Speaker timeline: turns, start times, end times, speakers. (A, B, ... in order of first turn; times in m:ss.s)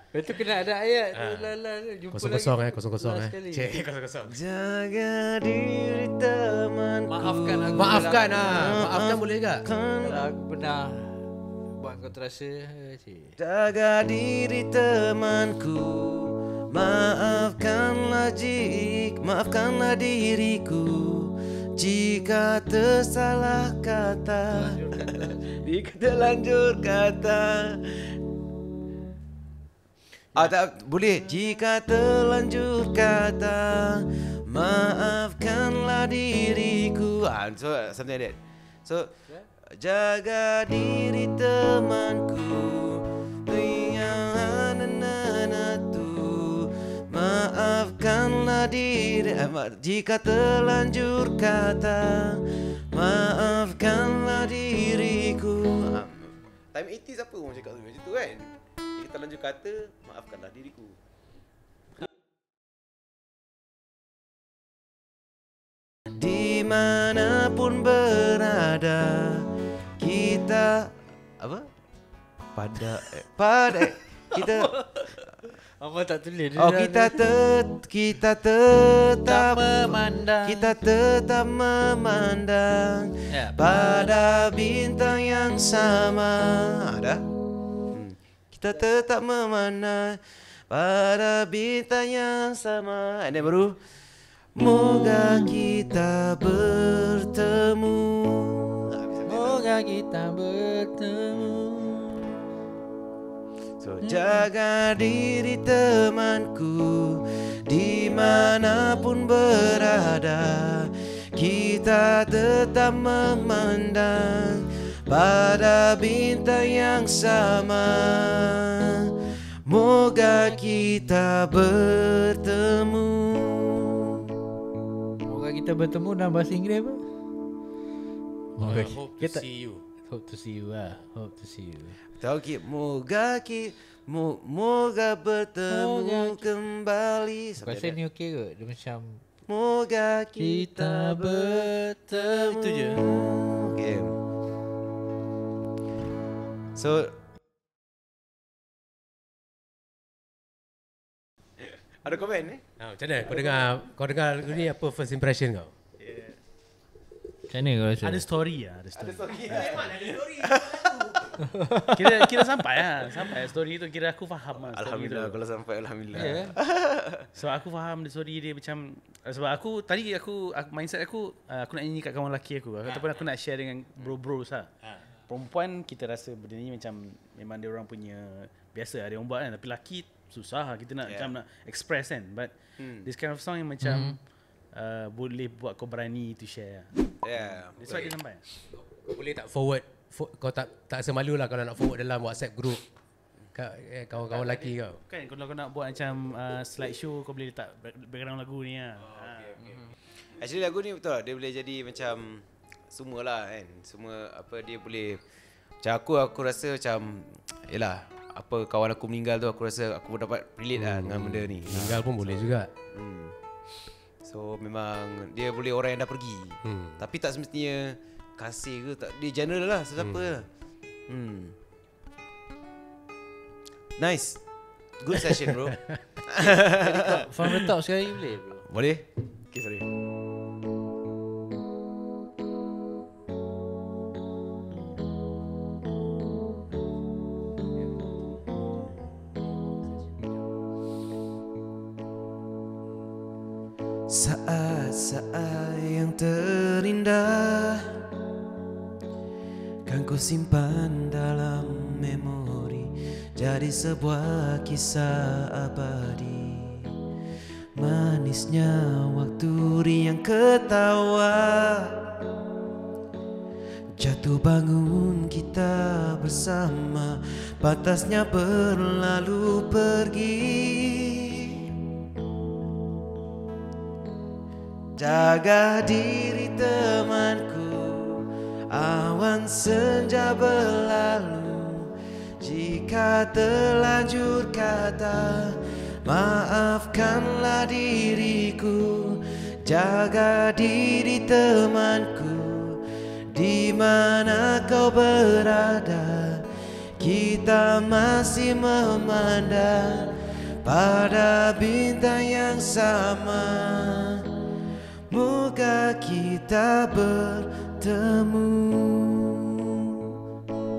0:00.1-0:03.8 A
0:01.2-0:01.5 B
0:02.1-0:04.4 B
0:04.3-0:10.3 C
0:07.1-0:08.8 A
0:07.8-0:09.7 B
0:10.0-0:13.4 A
0:13.4-0:28.2 C
0:24.5-0:25.6 A
0:30.4-0:39.1 C
0:39.6-1:01.0 C
1:06.1-1:11.7 C
1:12.5-1:14.7 C
1:14.3-1:17.2 A
1:16.6-1:27.2 C
1:19.2-1:20.7 A
1:23.3-1:24.0 A
1:27.9-1:33.8 C
1:34.6-1:39.6 C
1:39.3-1:42.4 A
1:43.8-1:59.1 C
1:44.0-1:44.4 A
1:59.6-2:04.3 C
2:00.3-2:00.8 A
2:05.2-2:07.0 A
2:08.6-2:09.4 A
2:08.6-2:09.8 B
2:10.1-2:12.0 A
2:12.2-2:18.0 C
2:15.7-2:16.4 A
2:17.6-2:19.2 A
2:19.5-2:24.2 C
2:20.4-2:23.1 A
2:26.8-2:27.1 C
2:31.6-2:32.6 C
2:32.8-2:35.7 B
2:36.0-2:36.4 D
2:37.5-2:38.2 A
2:38.0-2:40.2 D
2:39.0-2:41.4 C
2:41.4-2:42.4 A
2:41.9-2:45.4 D
2:44.6-2:47.3 C
2:46.1-2:46.6 A
2:47.4-2:54.7 D
2:55.3-3:04.2 D
3:01.0-3:01.4 C
3:02.8-3:03.1 C
3:03.8-3:04.2 A
3:04.7-3:06.9 D
3:07.2-3:08.2 C
3:07.8-3:08.4 D
3:09.0-3:12.8 B
3:13.5-3:15.0 B
3:14.3-3:19.6 D
3:19.1-3:25.2 C
3:25.8-3:33.4 C
3:30.7-3:32.7 B
3:34.2-3:40.5 C
3:36.6-3:37.0 B
3:40.0-3:40.3 B
3:41.1-3:41.6 C
3:44.0-3:44.4 C
3:45.0-3:47.3 C
3:45.7-3:46.0 B
3:46.5-3:48.7 A
3:48.7-3:49.9 C
4:04.1-4:08.0 C
4:09.9-4:17.0 C
4:17.8-4:22.1 C
4:24.0-4:31.8 C
4:35.0-4:56.5 C
4:57.0-5:10.2 C